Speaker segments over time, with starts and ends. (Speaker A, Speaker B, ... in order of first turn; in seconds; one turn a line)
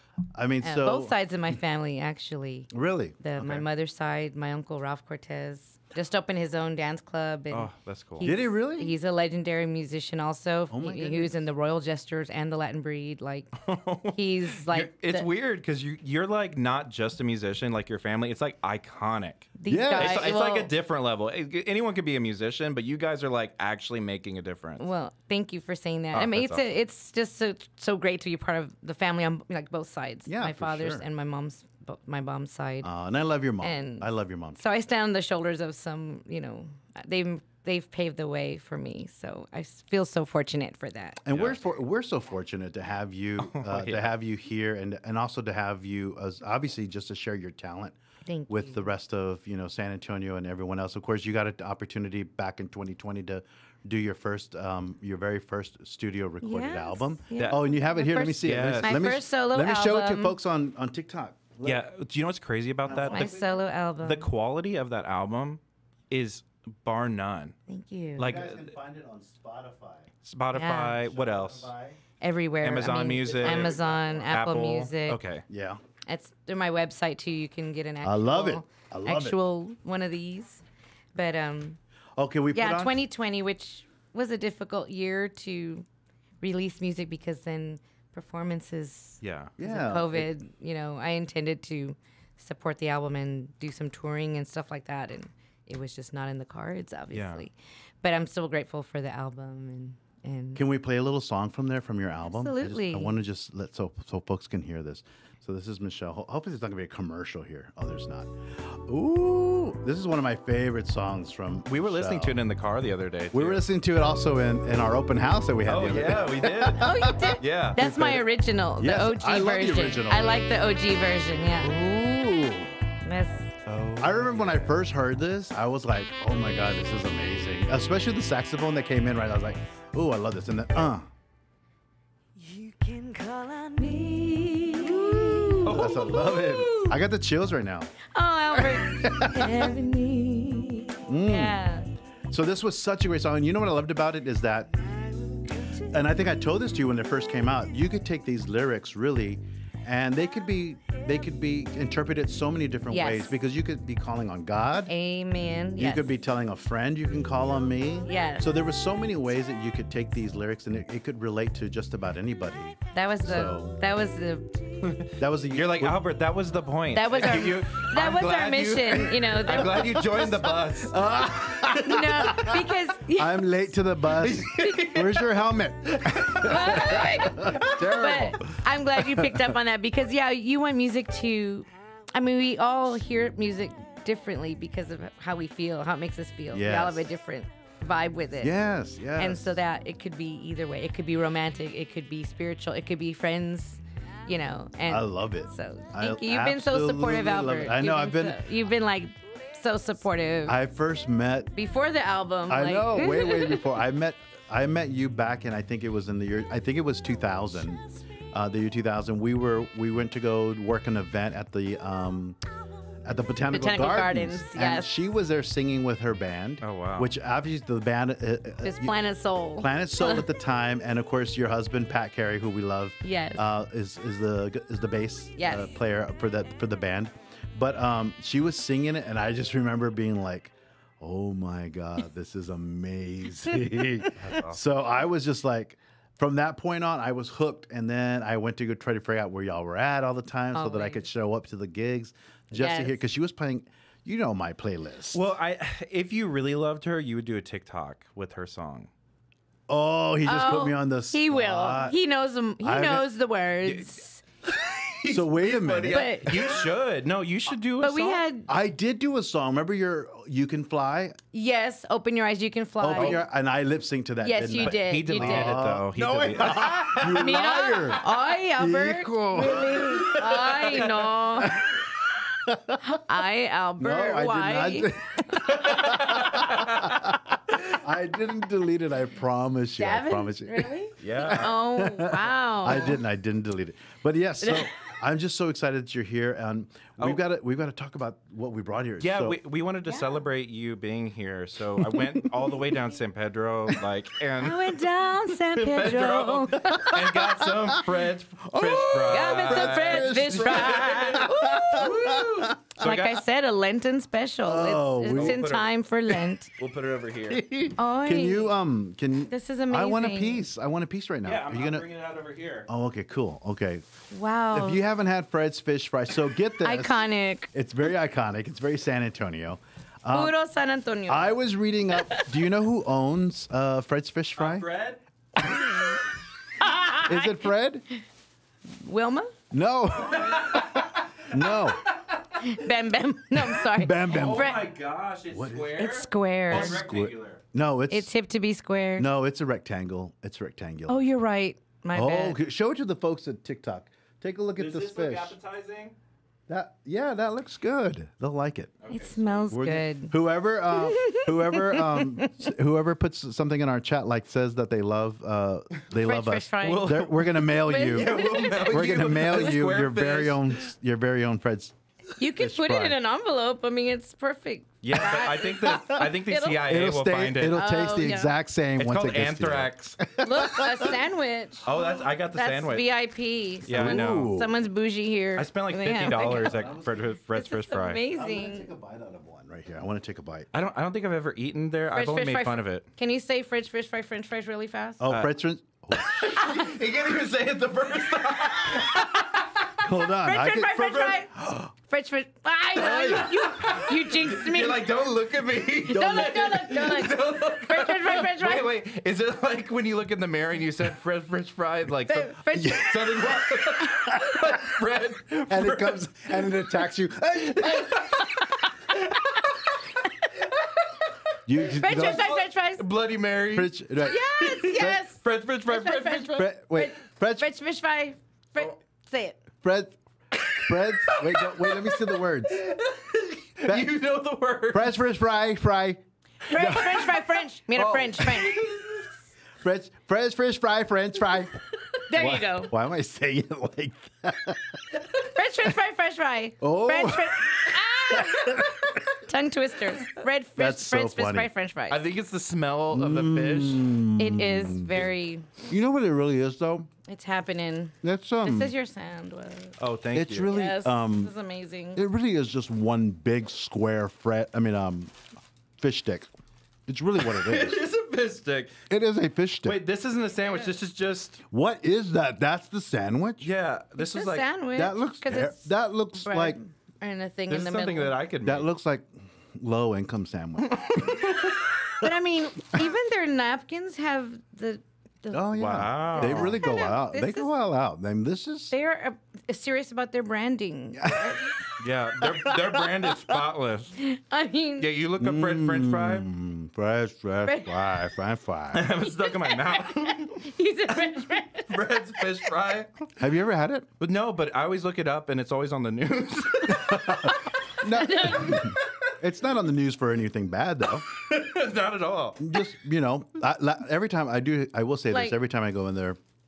Speaker A: 0.3-1.1
Speaker B: 0.6-13.5
Speaker A: 2.7-3.7
Speaker C: 7.5-8.3
Speaker A: 8.2-9.0
Speaker A: 10.7-11.3
Speaker C: 13.6-24.9
Speaker B: 14.1-15.3
Speaker B: 19.6-20.7
Speaker A: 19.7-20.4
Speaker B: 24.8-32.9
Speaker C: 26.1-26.6
Speaker A: 30.3-31.1
Speaker A: 32.8-34.6
Speaker B: 33.6-41.2
Speaker A: 41.2-48.0
Speaker C: 41.3-41.6
Speaker C: 43.4-44.1
Speaker B: 48.3-48.9
Speaker A: 48.5-61.8
Speaker B: 56.4-60.4
Speaker C: 58.4-59.1
Speaker C: 61.6-63.4
Speaker A: 62.9-63.5
Speaker B: 62.9-64.3
Speaker C: 64.0-67.5
Speaker B: 67.7-68.3
Speaker C: 68.2-68.7
Speaker A: 68.2-70.1
Speaker C: 70.2-71.7
Speaker B: 70.5-71.0
Speaker A: 71.0-72.0
Speaker B: 72.2-75.2
Speaker C: 72.6-75.5
Speaker A: 73.2-74.3
Speaker A: 75.5-75.8
Speaker B: 76.1-80.6
Speaker A: 78.0-79.4
Speaker B: 81.2-81.8
Speaker A: 82.2-83.0
Speaker B: 82.5-85.9
Speaker B: 86.4-100.6
Speaker C: 89.2-89.5
Speaker A: 89.6-90.3
Speaker C: 97.1-97.4
Speaker A: 100.6-112.4
Speaker B: 102.3-103.2
Speaker C: 111.7-113.6
Speaker A: 113.3-118.3
Speaker C: 115.7-117.8
Speaker B: 116.8-121.8
Speaker A: 118.8-120.7
Speaker A: 121.6-122.8
Speaker B: 123.0-123.5
Speaker C: 123.7-124.8
Speaker A: 124.0-131.1
Speaker B: 132.4-137.0
Speaker A: 134.9-137.9
Speaker C: 135.6-136.1
Speaker B: 138.1-141.9
Speaker A: 138.5-139.7
Speaker A: 141.1-141.6
Speaker A: 142.3-144.7
Speaker B: 144.9-145.9
Speaker A: 145.9-154.9
Speaker B: 152.9-153.3
Speaker B: 154.9-156.1
Speaker A: 155.8-163.8
Speaker B: 158.1-158.5
Speaker B: 162.9-164.6
Speaker C: 164.8-172.3
Speaker A: 165.2-166.0
Speaker B: 166.9-170.1
Speaker A: 169.5-178.4
Speaker B: 171.8-173.5
Speaker C: 174.1-175.3
Speaker C: 175.9-177.9
Speaker B: 176.4-188.6
Speaker A: 186.5-187.1
Speaker A: 188.4-189.6
Speaker B: 189.2-200.6
Speaker A: 194.9-198.4
Speaker A: 200.5-201.5
Speaker B: 201.6-203.7
Speaker A: 202.5-212.4
Speaker A: 213.1-219.0
Speaker B: 213.5-214.9
Speaker C: 216.6-217.1
Speaker B: 218.6-220.3
Speaker A: 219.6-245.2
Speaker B: 223.0-223.5
Speaker B: 225.4-225.8
Speaker C: 234.2-234.6
Speaker B: 240.5-241.0
Speaker B: 242.6-243.0
Speaker C: 245.1-248.9
Speaker A: 249.7-252.0
Speaker B: 250.2-254.2
Speaker A: 252.6-253.1
Speaker C: 253.7-258.2
Speaker A: 255.1-256.5
Speaker B: 255.9-256.6
Speaker B: 257.8-258.5
Speaker A: 258.5-261.2
Speaker B: 261.3-263.2
Speaker A: 262.8-273.0
Speaker B: 264.2-265.6
Speaker C: 264.6-267.4
Speaker B: 266.4-271.7
Speaker B: 272.8-275.4
Speaker A: 273.8-289.4
Speaker C: 275.5-277.0
Speaker B: 279.8-283.0
Speaker C: 281.0-281.6
Speaker B: 284.4-284.7
Speaker C: 289.0-294.8
Speaker A: 291.8-292.8
Speaker B: 294.4-297.1
Speaker C: 295.5-303.2
Speaker A: 297.0-297.9
Speaker A: 298.5-302.7
Speaker B: 299.1-302.2
Speaker B: 302.8-306.5
Speaker A: 304.4-305.4
Speaker C: 305.1-305.7
Speaker C: 306.5-307.4
Speaker A: 307.3-311.9
Speaker B: 307.8-308.5
Speaker B: 309.3-310.5
Speaker C: 311.2-312.7
Speaker A: 312.7-313.8
Speaker B: 314.1-314.8
Speaker A: 314.5-320.4
Speaker B: 316.6-317.5
Speaker B: 320.1-321.3
Speaker A: 321.1-324.7
Speaker B: 322.0-322.3
Speaker C: 324.4-325.0
Speaker B: 326.6-327.4
Speaker A: 327.0-327.9
Speaker B: 328.8-329.3
Speaker A: 329.5-331.8
Speaker C: 330.0-332.4
Speaker B: 332.4-334.6
Speaker A: 333.7-334.5
Speaker C: 334.1-337.4
Speaker A: 335.3-335.8
Speaker B: 335.8-336.8
Speaker A: 336.5-338.1
Speaker B: 337.9-339.1
Speaker A: 339.0-341.0
Speaker B: 340.9-342.4
Speaker A: 341.9-345.4
Speaker C: 344.6-345.9
Speaker A: 346.5-348.8
Speaker C: 348.8-349.2
Speaker B: 348.9-350.2
Speaker A: 349.5-361.7
Speaker B: 350.7-352.3
Speaker B: 356.0-358.9
Speaker C: 356.6-360.6
Speaker B: 362.2-366.6
Speaker A: 362.4-363.0
Speaker C: 364.8-367.6
Speaker A: 366.6-371.0
Speaker B: 367.5-368.3
Speaker C: 368.8-370.0
Speaker B: 370.2-376.6
Speaker C: 371.6-372.9
Speaker C: 373.6-374.3
Speaker A: 373.7-374.5
Speaker C: 375.4-378.0
Speaker A: 376.1-377.1
Speaker B: 377.3-378.7
Speaker A: 378.1-380.5
Speaker C: 380.5-382.9
Speaker B: 381.9-385.1
Speaker A: 385.0-386.6
Speaker C: 386.0-389.7
Speaker A: 389.8-391.7
Speaker B: 390.2-391.3
Speaker B: 391.9-394.9
Speaker A: 392.8-393.3
Speaker C: 392.8-406.6
Speaker B: 395.9-398.7
Speaker A: 395.9-396.5
Speaker B: 402.1-402.8
Speaker A: 402.5-404.7
Speaker A: 405.5-408.2
Speaker C: 407.5-409.8
Speaker A: 411.5-412.3
Speaker B: 411.7-412.9
Speaker C: 411.9-413.8
Speaker A: 413.5-415.0
Speaker B: 414.0-419.4
Speaker C: 414.4-416.5
Speaker A: 416.4-417.5
Speaker A: 419.6-420.0
Speaker C: 420.5-424.9
Speaker A: 420.6-422.6
Speaker A: 423.6-423.9
Speaker A: 424.7-427.2
Speaker B: 426.5-428.6
Speaker A: 427.8-428.7
Speaker C: 428.3-429.0
Speaker A: 429.6-434.9
Speaker B: 432.1-432.7
Speaker B: 435.2-442.0
Speaker A: 436.6-439.0
Speaker A: 440.6-441.5
Speaker C: 441.9-444.0
Speaker A: 442.9-446.9
Speaker B: 444.2-445.5
Speaker B: 447.1-449.8
Speaker A: 448.0-448.7
Speaker C: 449.8-450.5
Speaker A: 450.1-451.3
Speaker B: 450.5-452.0
Speaker A: 451.9-455.2
Speaker A: 455.8-456.3
Speaker A: 456.9-457.8
Speaker C: 457.2-458.8
Speaker A: 458.9-459.8
Speaker C: 459.6-461.4
Speaker A: 461.5-463.5
Speaker C: 463.4-464.5
Speaker B: 464.0-468.2
Speaker A: 464.8-466.6
Speaker C: 467.5-468.7
Speaker A: 468.4-472.1
Speaker C: 470.8-471.1
Speaker B: 472.0-477.5
Speaker A: 475.3-478.7
Speaker C: 475.6-476.6
Speaker B: 478.7-481.6
Speaker A: 481.1-481.6
Speaker C: 481.8-484.0
Speaker A: 482.2-483.3
Speaker B: 484.0-484.9
Speaker C: 484.8-486.3
Speaker A: 485.2-488.9
Speaker B: 487.4-487.8
Speaker C: 488.7-493.1
Speaker B: 489.1-492.2
Speaker A: 493.2-493.9
Speaker C: 494.0-497.4
Speaker A: 496.7-501.1
Speaker B: 497.8-498.7
Speaker C: 501.1-502.6
Speaker A: 502.4-506.2
Speaker B: 505.1-505.4